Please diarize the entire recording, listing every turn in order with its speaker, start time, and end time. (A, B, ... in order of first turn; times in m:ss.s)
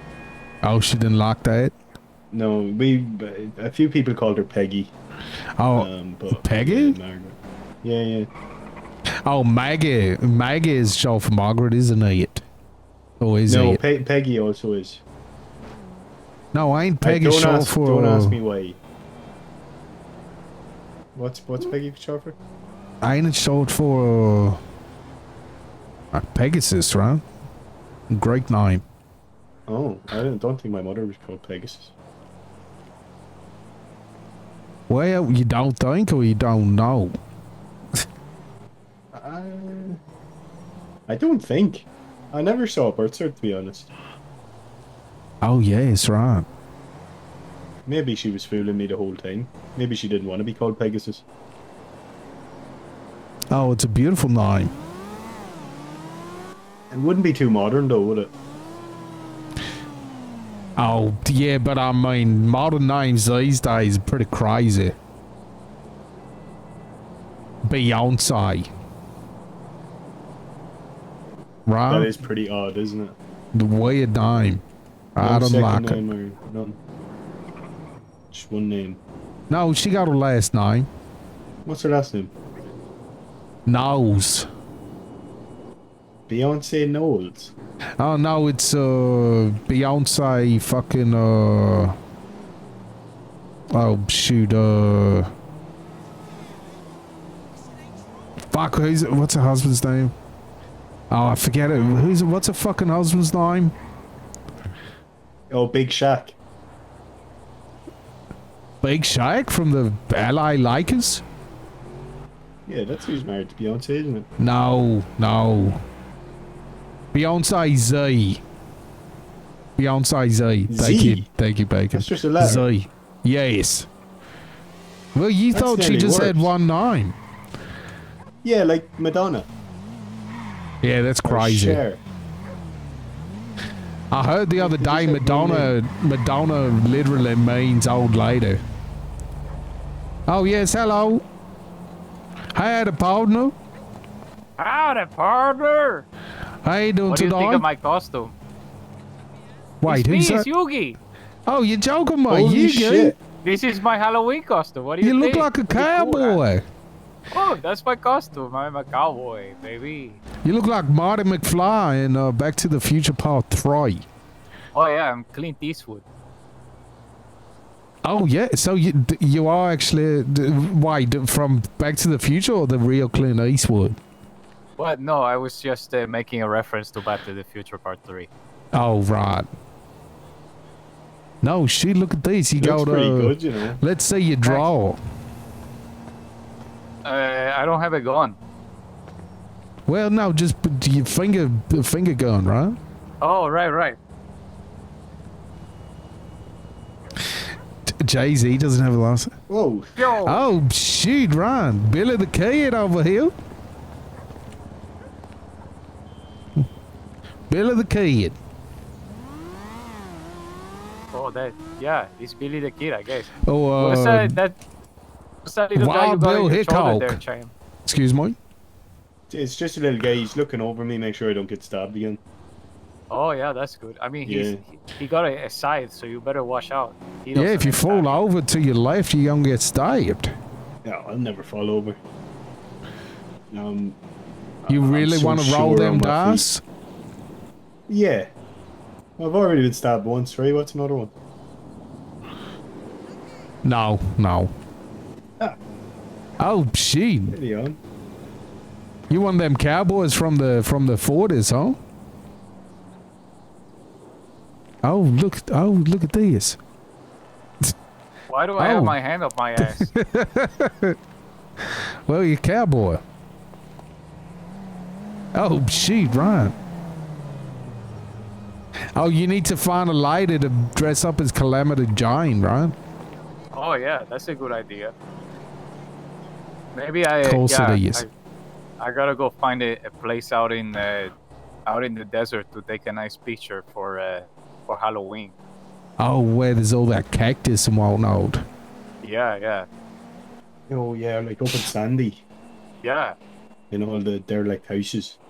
0:00.6-0:01.7 A
0:02.3-0:04.9 B
0:05.6-0:07.0 A
0:05.8-0:08.3 B
0:09.2-0:12.4 A
0:13.2-0:13.8 A
0:13.5-0:15.0 B
0:16.5-0:18.4 A
0:17.0-0:18.8 B
0:21.1-0:22.4 B
0:23.0-0:24.6 A
0:26.1-0:27.2 A
0:28.1-0:28.8 A
0:29.7-0:31.9 B
0:34.9-0:37.1 A
0:39.1-0:40.0 B
0:41.1-0:43.9 B
0:45.4-0:46.5 A
0:47.9-0:51.2 B
0:53.5-0:54.7 A
0:56.9-0:58.3 B
1:00.8-1:05.0 A
1:07.6-1:08.7 A
1:11.7-1:12.1 A
1:11.9-1:13.2 B
1:13.5-1:14.6 A
1:15.2-1:16.0 A
1:15.2-1:16.8 B
1:18.3-1:19.0 B
1:19.5-1:20.9 A
1:21.6-1:22.3 B
1:23.6-1:24.4 A
1:26.3-1:27.5 B
1:28.0-1:31.9 A
1:33.7-1:35.3 A
1:38.5-1:40.1 A
1:41.1-1:43.7 A
1:45.5-1:46.4 B
1:48.8-1:51.2 A
1:52.7-1:54.3 B
1:54.4-1:55.8 A
1:57.1-1:58.4 A
1:59.8-2:03.9 A
2:00.7-2:01.3 B
2:01.9-2:02.7 B
2:05.1-2:07.2 A
2:05.5-2:06.5 B
2:08.4-2:09.5 B
2:10.8-2:11.8 A
2:11.2-2:12.0 B
2:14.1-2:18.6 A
2:14.6-2:15.7 B
2:20.3-2:21.2 A
2:22.5-2:23.5 A
2:24.6-2:26.0 C
2:26.6-2:27.6 A
2:27.1-2:28.3 C
2:29.8-2:30.5 A
2:29.8-2:31.0 C
2:31.4-2:33.1 A
2:32.3-2:33.2 B
2:33.4-2:36.4 C
2:35.0-2:36.6 A
2:37.3-2:40.2 C
2:40.4-2:44.0 A
2:44.7-2:46.0 C
2:48.0-2:54.0 A
2:54.8-2:58.3 C
2:58.7-2:59.5 A
3:01.4-3:05.0 A
3:02.6-3:03.8 B
3:04.4-3:04.7 C
3:07.0-3:08.4 C
3:09.9-3:12.8 A
3:13.2-3:14.0 C
3:17.9-3:19.3 A
3:19.5-3:20.0 B
3:20.0-3:20.5 C
3:20.2-3:23.3 A
3:27.5-3:28.4 A
3:31.1-3:34.6 C
3:33.4-3:34.4 A
3:35.4-3:37.5 C
3:35.7-3:37.2 A
3:37.8-3:38.4 A
3:39.3-3:42.2 B
3:43.1-3:48.1 C
3:44.2-3:44.6 B
3:47.3-3:50.3 A
3:50.8-3:52.0 B
3:53.5-3:54.0 B
3:54.6-3:56.5 B
3:54.7-3:56.6 A
3:57.9-3:58.3 B
3:59.2-4:01.1 B
4:03.6-4:04.5 A
4:06.4-4:07.3 A
4:07.3-4:07.8 B
4:09.1-4:11.8 A
4:14.8-4:16.6 A
4:18.3-4:19.9 C
4:18.6-4:19.0 A
4:19.6-4:20.9 A
4:21.6-4:23.0 A
4:25.3-4:26.5 A
4:28.9-4:32.7 A
4:33.5-4:34.9 C
4:36.7-4:38.1 C
4:37.2-4:38.0 A
4:38.8-4:41.1 C
4:41.6-4:45.3 C
4:46.0-4:48.4 A
4:49.0-4:49.7 C
4:50.7-4:52.2 B
4:52.8-4:53.2 C
4:53.7-4:55.2 B